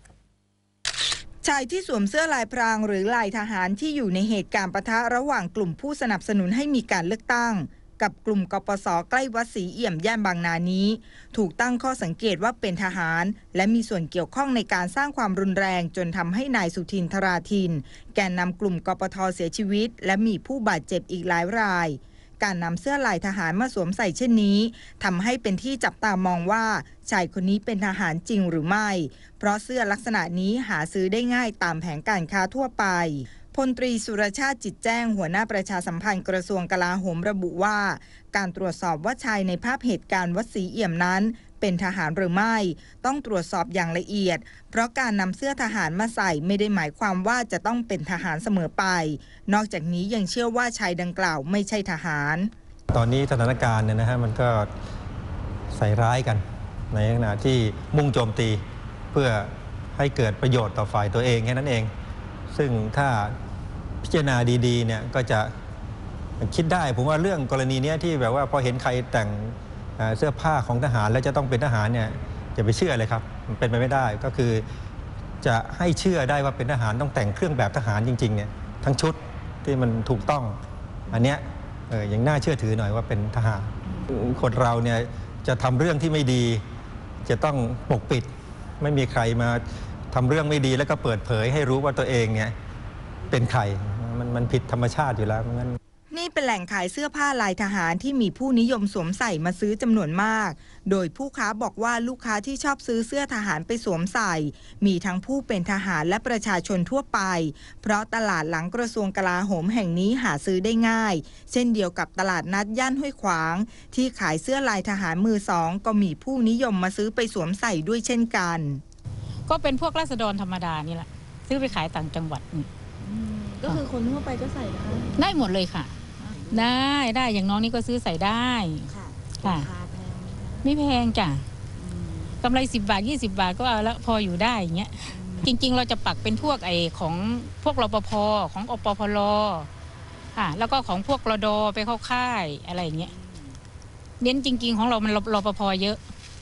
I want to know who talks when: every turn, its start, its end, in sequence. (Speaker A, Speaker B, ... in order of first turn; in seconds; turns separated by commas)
Speaker A: 1.4-52.5, Speaker B: 52.9-54.7, Speaker B: 55.7-61.9, Speaker B: 62.5-63.3, Speaker B: 64.0-65.5, Speaker B: 66.4-74.6, Speaker B: 75.4-80.6, Speaker B: 81.1-86.6, Speaker B: 87.2-88.3, Speaker B: 88.8-92.5, Speaker B: 93.3-95.8, Speaker A: 96.1-118.8, Speaker C: 119.5-122.7, Speaker D: 123.0-125.3, Speaker C: 125.2-126.0, Speaker D: 126.2-126.8, Speaker C: 126.5-128.9, Speaker D: 128.9-130.7, Speaker C: 129.4-129.7, Speaker C: 130.6-131.4, Speaker D: 131.8-132.4, Speaker C: 132.4-139.7, Speaker D: 135.1-135.5, Speaker C: 140.3-143.1, Speaker D: 143.1-143.6, Speaker C: 144.2-146.0